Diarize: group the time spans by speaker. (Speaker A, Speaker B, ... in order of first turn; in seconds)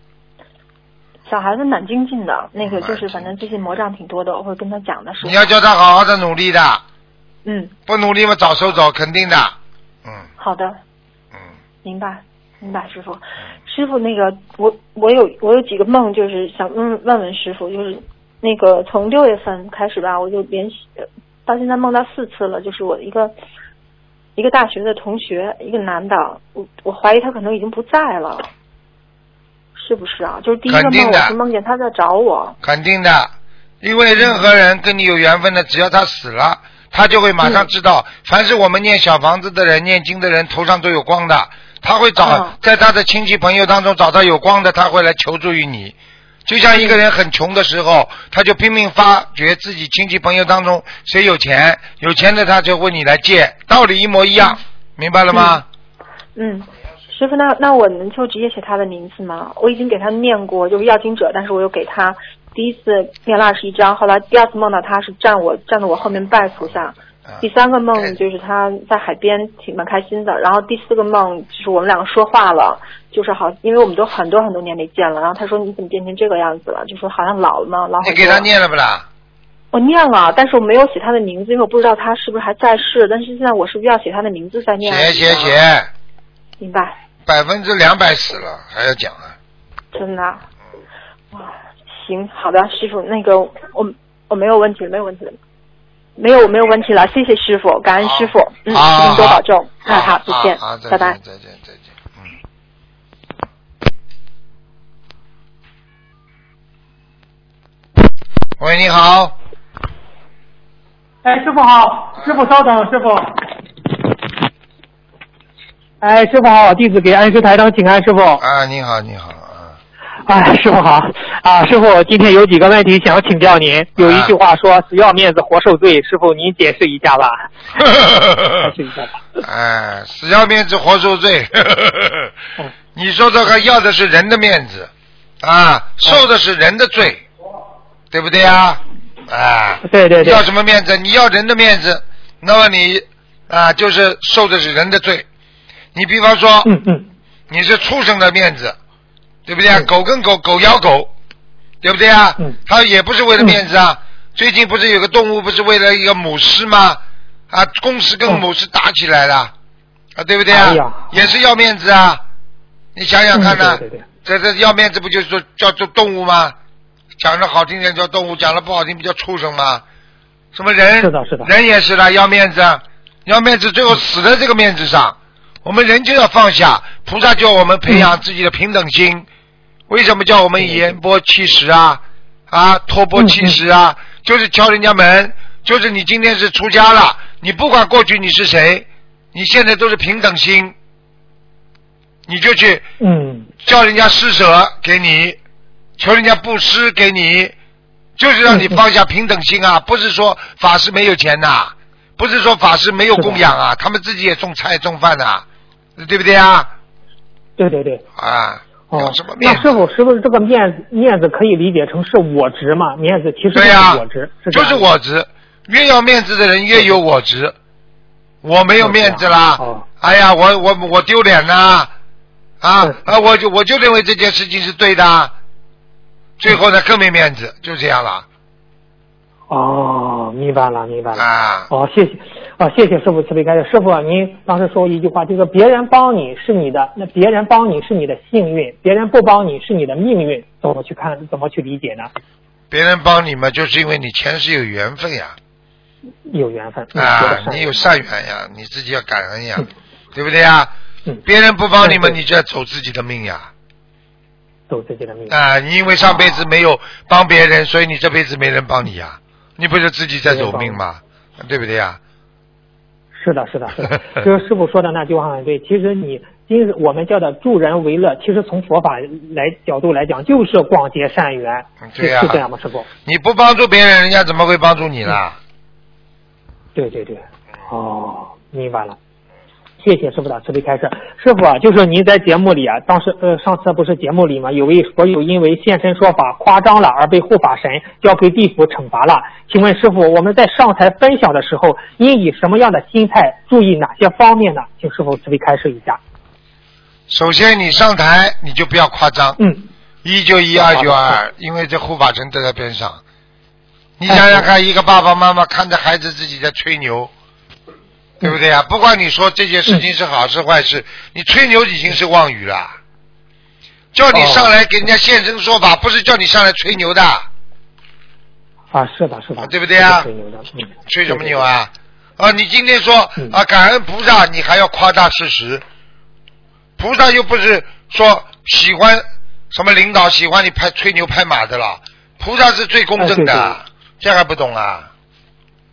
Speaker A: 1.3-5.5, 7.4-7.7, 10.4-10.8, 11.8-23.3, 24.4-28.5, 29.8-32.5, 34.1-34.5, 37.4-37.7, 42.2-42.5, 46.7-47.0, 55.3-55.6, 56.4-78.5, 79.7-85.6, 86.6-87.0, 89.9-90.4, 91.3-95.4, 96.2-101.2
Speaker B: 2.6-3.4, 5.2-6.8, 7.9-10.3, 30.7-31.3, 32.6-45.9, 46.5-55.6, 67.2-68.2, 78.0-79.0, 84.8-85.9, 87.2-89.3, 98.0-102.3, 108.6-109.3, 118.4-119.8, 124.0-124.3, 128.0-128.7, 129.4-132.3, 132.9-137.2, 138.1-145.2, 145.9-146.8, 147.5-148.8, 149.4-151.1, 151.8-159.5, 160.2-162.2, 162.9-166.5, 167.2-169.8, 170.5-179.3, 179.9-190.7, 192.3-192.9, 193.6-195.4, 196.0-197.5, 198.2-205.4, 206.0-206.7, 208.2-209.8, 213.5-217.5, 218.4-221.9, 222.6-225.3, 226.4-228.2, 231.1-231.7, 242.7-245.3, 246.9-250.7, 251.2-253.5, 255.3-262.0, 271.8-272.4, 273.0-275.4, 297.1-299.4, 300.0-303.0, 304.0-307.1, 308.2-312.8, 313.9-317.3, 319.4-320.1, 320.9-325.6, 326.8-334.9
Speaker C: 111.2-113.5, 116.0-118.4, 120.3-127.5, 128.5-129.2, 139.8-140.4, 146.6-147.1, 160.5-161.2, 163.3-164.1, 171.0-171.5, 180.6-180.9, 183.2-183.6, 193.0-193.5, 198.5-198.8, 203.2-203.4, 207.6-208.0, 208.9-214.8, 218.8-219.9, 229.5-242.1, 246.3-247.9, 251.8-252.2, 254.7-255.3, 260.2-260.8, 263.2-272.9, 276.7-279.0, 279.8-296.0, 299.4-299.7, 300.5-301.2, 304.1-304.5, 314.1-314.5, 318.7-321.4, 333.0-333.6